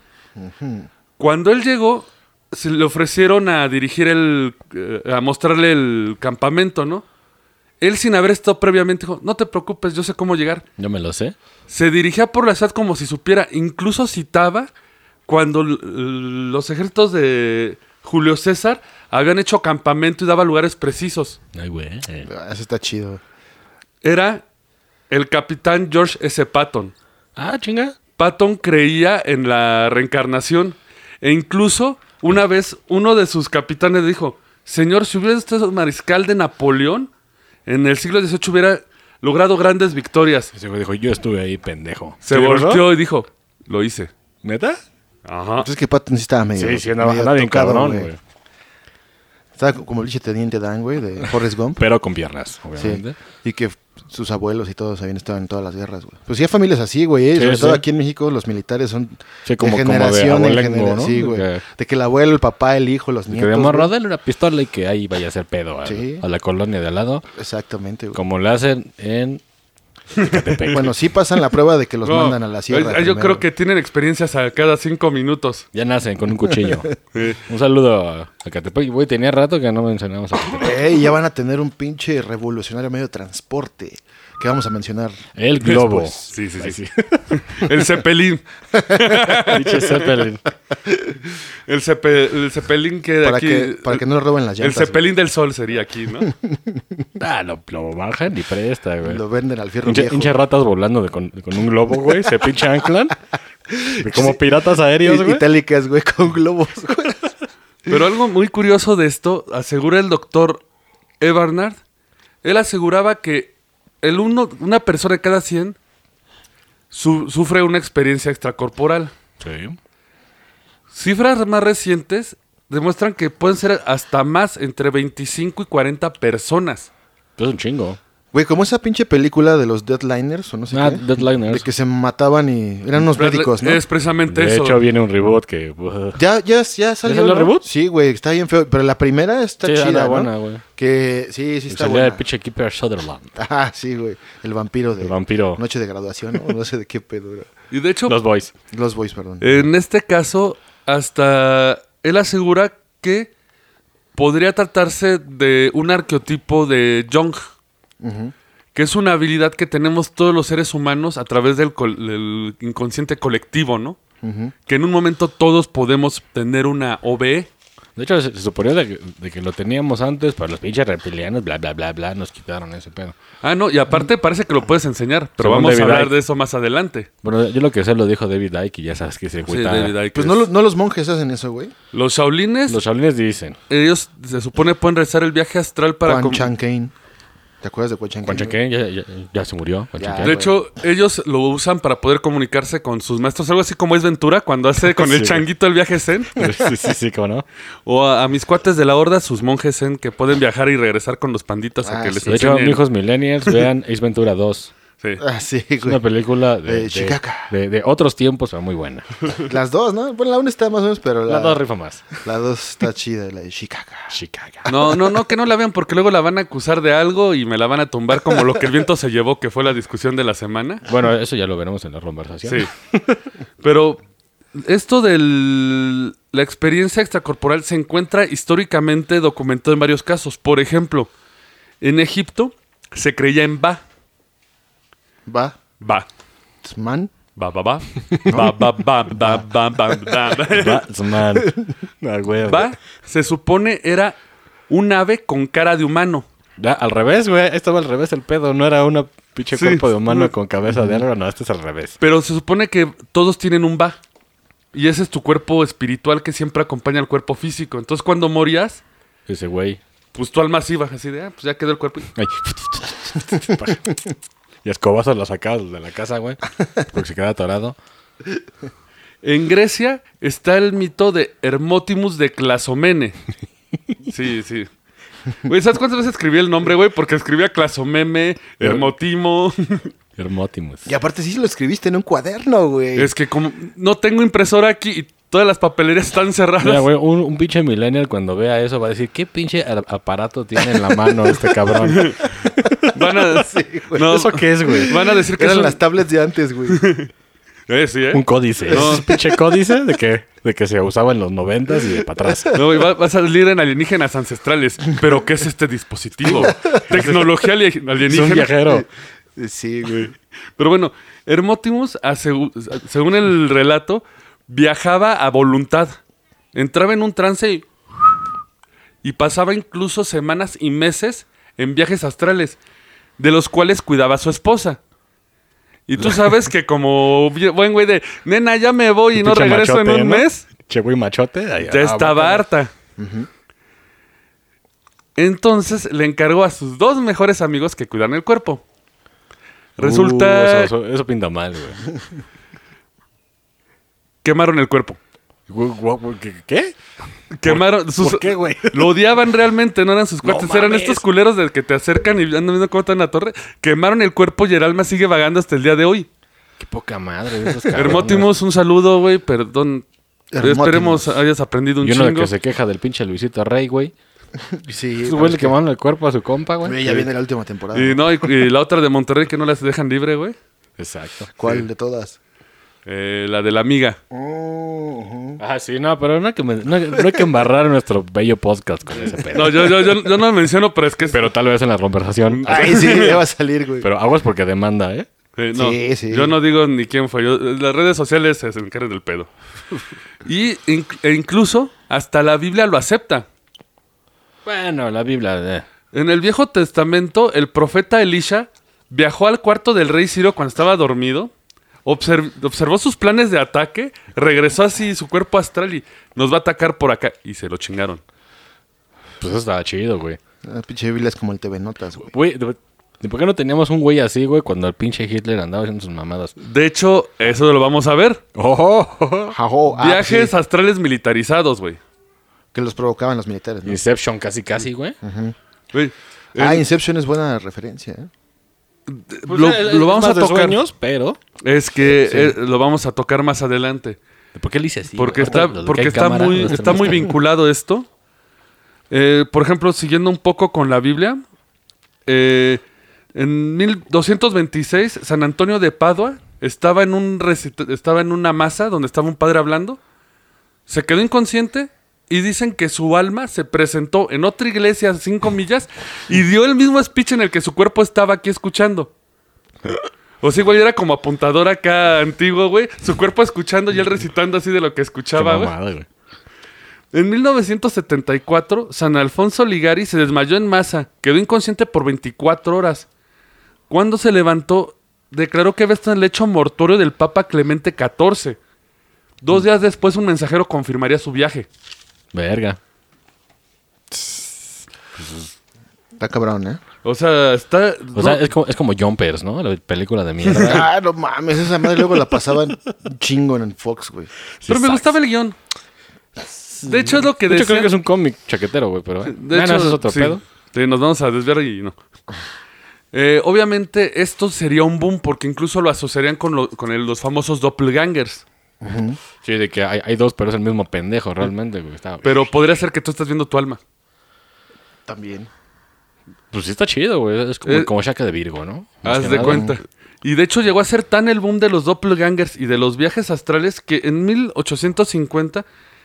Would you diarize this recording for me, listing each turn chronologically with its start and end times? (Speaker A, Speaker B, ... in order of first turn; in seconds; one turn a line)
Speaker A: 0.4-0.9
Speaker B: 1.2-7.0
Speaker B: 7.8-10.6
Speaker C: 10.8-11.3
Speaker B: 11.7-14.7
Speaker B: 15.3-21.4
Speaker C: 21.5-22.3
Speaker A: 22.3-23.2
Speaker B: 24.0-24.4
Speaker B: 25.1-26.9
Speaker C: 27.4-27.9
Speaker B: 28.2-37.1
Speaker B: 37.6-40.5
Speaker C: 40.5-42.9
Speaker B: 42.2-44.1
Speaker C: 44.4-44.8
Speaker B: 45.2-45.7
Speaker A: 45.6-48.1
Speaker C: 46.5-48.2
Speaker A: 49.6-51.8
Speaker C: 51.8-53.2
Speaker A: 52.8-63.9
Speaker C: 57.3-57.8
Speaker C: 59.4-61.6
Speaker C: 63.3-67.2
Speaker A: 65.8-66.2
Speaker A: 67.3-68.2
Speaker C: 68.1-69.4
Speaker B: 70.2-70.7
Speaker C: 70.2-70.9
Speaker A: 70.7-73.4
Speaker B: 72.0-75.7
Speaker C: 75.7-80.8
Speaker A: 76.4-76.9
Speaker B: 77.1-77.4
Speaker A: 80.6-86.1
Speaker C: 85.3-87.3
Speaker B: 86.3-90.0
Speaker C: 89.5-90.4
Speaker B: 91.7-94.0
Speaker A: 93.2-95.0
Speaker B: 94.6-96.3
Speaker A: 96.2-96.8
Speaker C: 97.2-99.2
Speaker A: 99.0-100.3
Speaker C: 99.8-103.2
Speaker A: 103.7-104.5
Speaker C: 104.0-105.4
Speaker A: 105.0-107.3
Speaker B: 107.9-110.6
Speaker B: 111.2-111.8
Speaker B: 112.4-115.8
Speaker B: 116.9-119.1
Speaker C: 119.4-119.8
Speaker B: 120.9-126.9
Speaker C: 127.4-128.0
Speaker A: 128.3-133.8
Speaker C: 130.7-131.7
Speaker B: 133.1-134.8
Speaker C: 134.3-136.2
Speaker A: 136.1-142.2
Speaker C: 137.0-137.6
Speaker C: 139.6-140.6
Speaker C: 141.7-143.3
Speaker A: 143.4-147.5
Speaker C: 145.0-145.6
Speaker B: 147.7-148.2
Speaker C: 148.1-148.5
Speaker A: 148.7-149.7
Speaker B: 149.4-153.3
Speaker B: 154.2-157.5
Speaker A: 158.0-158.3
Speaker B: 158.7-164.0
Speaker A: 164.2-164.5
Speaker B: 164.7-167.5
Speaker C: 167.9-173.2
Speaker B: 173.4-177.1
Speaker C: 175.4-176.1
Speaker C: 177.2-179.9
Speaker B: 179.5-180.5
Speaker A: 180.1-181.7
Speaker B: 181.9-182.8
Speaker C: 182.7-183.6
Speaker B: 183.7-186.5
Speaker A: 186.0-186.9
Speaker A: 187.6-188.5
Speaker C: 188.2-190.4
Speaker A: 190.0-190.6
Speaker B: 190.2-196.3
Speaker C: 194.8-195.4
Speaker C: 196.3-197.4
Speaker B: 197.8-202.8
Speaker A: 201.8-202.4
Speaker C: 202.2-204.7
Speaker A: 205.2-206.0
Speaker C: 205.8-209.1
Speaker A: 206.6-207.5
Speaker A: 209.4-211.6
Speaker C: 211.2-212.1
Speaker A: 212.2-214.1
Speaker C: 214.1-214.9
Speaker B: 214.7-220.8
Speaker C: 220.8-223.2
Speaker B: 222.4-222.7
Speaker B: 223.6-224.0
Speaker B: 224.6-231.1
Speaker B: 231.8-233.8
Speaker A: 235.3-235.6
Speaker B: 235.8-236.1
Speaker A: 236.6-237.1
Speaker B: 237.3-240.8
Speaker C: 240.5-242.7
Speaker A: 241.3-241.6
Speaker B: 242.4-244.2
Speaker B: 244.7-246.2
Speaker C: 246.6-252.0
Speaker B: 249.5-250.3
Speaker A: 250.7-251.0
Speaker B: 252.0-254.0
Speaker B: 254.7-258.8
Speaker C: 259.3-259.8
Speaker B: 260.1-262.1
Speaker C: 262.1-263.9
Speaker C: 264.6-267.8
Speaker B: 269.2-273.2
Speaker B: 274.1-274.7
Speaker B: 275.4-279.9
Speaker C: 278.6-278.9
Speaker C: 280.2-280.9
Speaker A: 280.9-283.1
Speaker B: 282.9-286.9
Speaker C: 286.6-292.8
Speaker A: 290.7-291.5
Speaker B: 291.8-292.2
Speaker A: 292.6-296.9
Speaker B: 292.9-295.8
Speaker C: 294.0-294.9
Speaker B: 296.7-297.1
Speaker B: 297.7-299.1
Speaker C: 298.1-302.5
Speaker A: 298.7-299.3
Speaker A: 302.3-302.6
Speaker B: 302.5-308.5
Speaker A: 306.3-307.1
Speaker C: 308.1-308.9
Speaker A: 308.6-310.1
Speaker B: 309.9-316.0
Speaker B: 316.5-317.7
Speaker B: 319.0-322.6
Speaker B: 323.2-324.8
Speaker B: 325.9-330.5
Speaker C: 329.1-332.4
Speaker B: 331.7-332.7
Speaker A: 333.0-333.3
Speaker B: 335.1-338.6
Speaker B: 339.8-340.7
Speaker C: 339.8-341.8
Speaker B: 344.2-345.0
Speaker C: 345.5-346.8
Speaker B: 347.3-356.1
Speaker C: 347.4-348.9
Speaker C: 350.2-351.0
Speaker C: 356.6-358.3
Speaker B: 357.7-359.9
Speaker A: 360.3-361.2
Speaker B: 360.4-362.3
Speaker C: 361.8-363.9
Speaker A: 364.5-365.6
Speaker C: 365.0-367.1
Speaker A: 366.6-368.3
Speaker B: 367.7-370.4
Speaker C: 370.8-371.3
Speaker A: 371.4-372.2
Speaker B: 372.9-374.0
Speaker A: 374.1-375.4
Speaker C: 375.4-379.9
Speaker B: 379.3-381.2
Speaker C: 381.1-382.9
Speaker B: 382.3-383.2
Speaker A: 382.5-383.9
Speaker C: 383.8-385.1
Speaker B: 385.4-389.3
Speaker A: 385.5-386.4
Speaker B: 390.2-393.2
Speaker C: 394.4-395.6
Speaker B: 395.9-401.3
Speaker B: 401.8-408.0
Speaker C: 409.2-410.2
Speaker A: 410.4-412.1
Speaker C: 412.1-416.3
Speaker B: 416.4-418.2
Speaker C: 418.3-419.4
Speaker A: 419.3-420.3
Speaker B: 419.7-421.8
Speaker A: 422.5-423.8
Speaker C: 423.6-424.9
Speaker A: 425.0-425.3
Speaker B: 425.7-426.6
Speaker A: 426.4-428.1
Speaker B: 428.9-430.6
Speaker C: 429.3-431.2
Speaker B: 431.4-434.0
Speaker C: 434.3-437.1
Speaker B: 435.0-437.9
Speaker B: 438.9-441.2
Speaker B: 442.1-442.6
Speaker B: 443.1-449.8
Speaker B: 450.7-458.9
Speaker B: 460.2-465.5
Speaker C: 465.1-465.9
Speaker B: 466.9-472.9
Speaker B: 473.7-478.4
Speaker B: 479.2-481.5
Speaker C: 482.1-482.6
Speaker C: 485.0-485.3
Speaker A: 486.0-486.6
Speaker B: 486.8-488.2
Speaker C: 487.9-490.7
Speaker B: 490.3-490.5
Speaker A: 490.3-494.1
Speaker C: 494.4-494.9
Speaker B: 494.4-495.4
Speaker C: 496.2-500.2
Speaker B: 496.6-497.7
Speaker B: 499.1-501.8
Speaker B: 502.9-508.2
Speaker A: 508.6-509.0
Speaker C: 509.2-512.3
Speaker B: 512.0-513.6
Speaker A: 514.9-515.3
Speaker C: 516.3-519.5
Speaker B: 517.4-517.7
Speaker B: 518.8-525.4
Speaker A: 519.2-519.5